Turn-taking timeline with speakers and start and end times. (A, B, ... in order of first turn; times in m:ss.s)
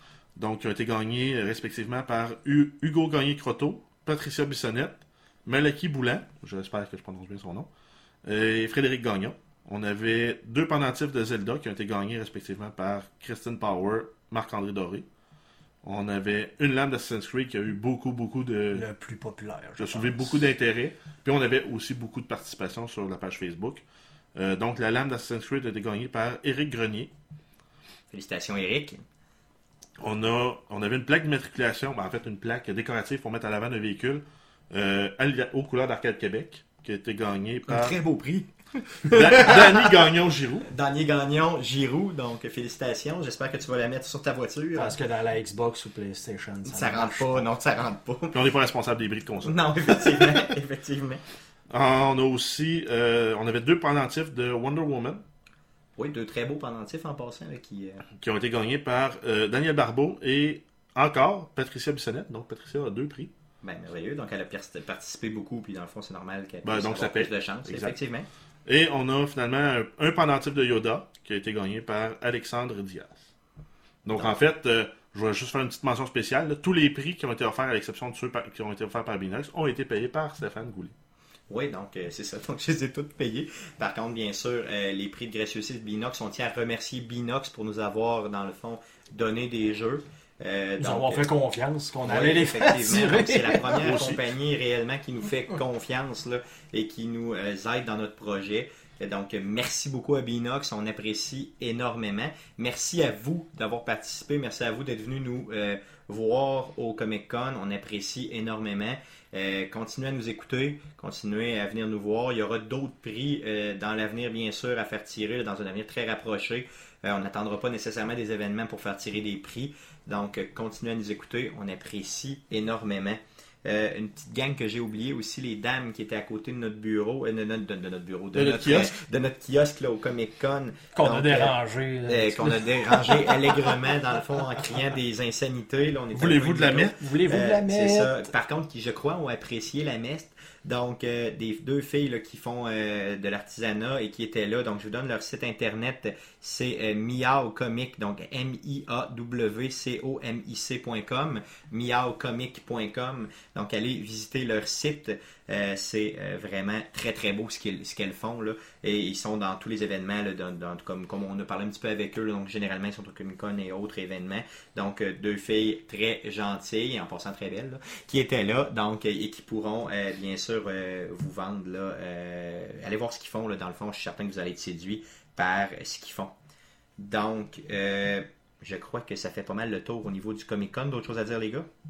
0:00.4-0:07.7 A
0:08.2-0:15.1 A
0:15.8-0:18.9 A
0:18.7-0:20.4 B
0:19.8-0:23.8 A
0:24.4-0:27.1 A
0:28.1-0:29.0 C
0:30.0-0:38.0 A
0:37.7-0:40.1 C
0:39.1-0:40.7 A
0:40.7-0:44.9 C
0:44.8-0:47.5 B
0:46.7-0:48.4 C
0:48.3-0:50.3 A
0:49.4-0:51.2 C
0:51.7-0:55.2 A
0:56.0-0:58.1 C
0:58.2-1:03.3 A
1:03.6-1:08.3 C
1:06.6-1:07.9 A
1:08.7-1:13.3 A
1:14.0-1:20.9 A
1:21.5-1:31.3 C
1:30.8-1:33.8 B
1:32.1-2:11.6 C
1:33.8-1:34.2 A
2:08.3-2:08.9 A
2:11.0-2:14.0 B
2:12.1-2:56.4 C
2:16.1-2:17.0 A
2:17.0-2:18.3 B
2:57.0-3:01.7 C